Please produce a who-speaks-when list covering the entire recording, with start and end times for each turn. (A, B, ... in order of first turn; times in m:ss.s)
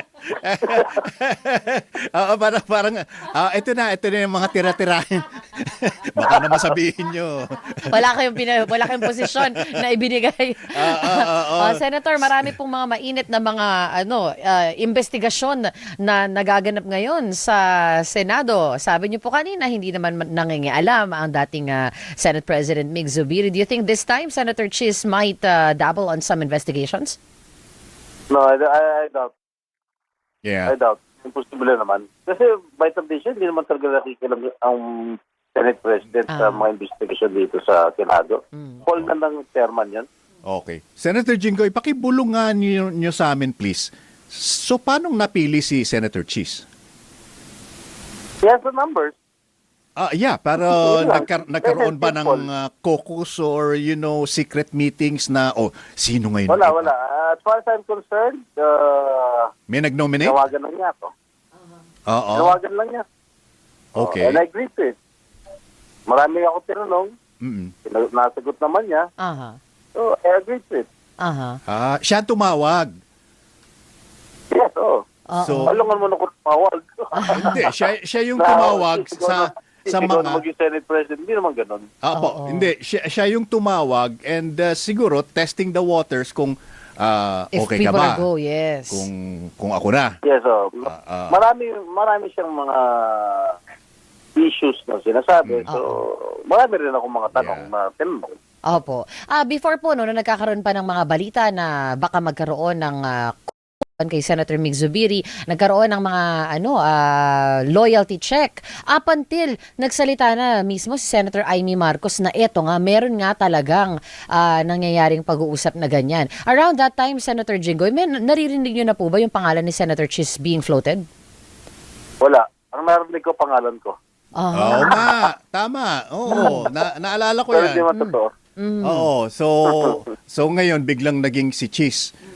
0:00.3-0:08.1 A
0:00.7-0:01.0 B
0:07.9-0:27.2 C
0:08.6-0:09.6 A
0:10.7-0:12.5 A
0:28.3-0:29.3 B
0:30.4-0:30.7 A
0:30.6-0:40.1 B
0:36.3-0:36.6 C
0:38.5-0:38.8 C
0:40.4-0:46.6 A
0:48.4-0:49.2 B
0:50.0-0:56.9 A
0:50.6-0:52.4 B
0:56.5-0:59.5 B
0:59.7-1:00.4 A
1:00.2-1:01.1 B
1:02.1-1:02.6 A
1:02.3-1:03.0 B
1:04.0-1:04.4 A
1:04.0-1:04.9 B
1:06.1-1:07.1 B
1:07.4-1:07.7 A
1:07.8-1:09.1 B
1:09.2-1:09.6 C
1:10.0-1:10.9 B
1:11.2-1:11.6 C
1:11.6-1:12.9 A
1:14.5-1:15.0 B
1:15.3-1:15.8 C
1:15.4-1:15.7 A
1:15.7-1:17.7 B
1:17.2-1:17.6 C
1:17.3-1:20.4 A
1:18.4-1:21.9 B
1:22.0-1:28.2 A
1:22.1-1:22.7 C
1:27.5-1:29.1 C
1:28.9-1:30.2 A
1:30.2-1:33.6 B
1:30.8-1:31.4 A
1:34.4-1:38.4 B
1:37.3-1:37.7 A
1:38.6-2:01.0 C
2:02.2-2:04.0 B
2:04.4-2:05.0 C
2:04.5-2:07.8 A
2:06.3-2:06.7 C
2:07.5-2:08.3 B
2:07.9-2:09.1 C
2:08.8-2:12.1 A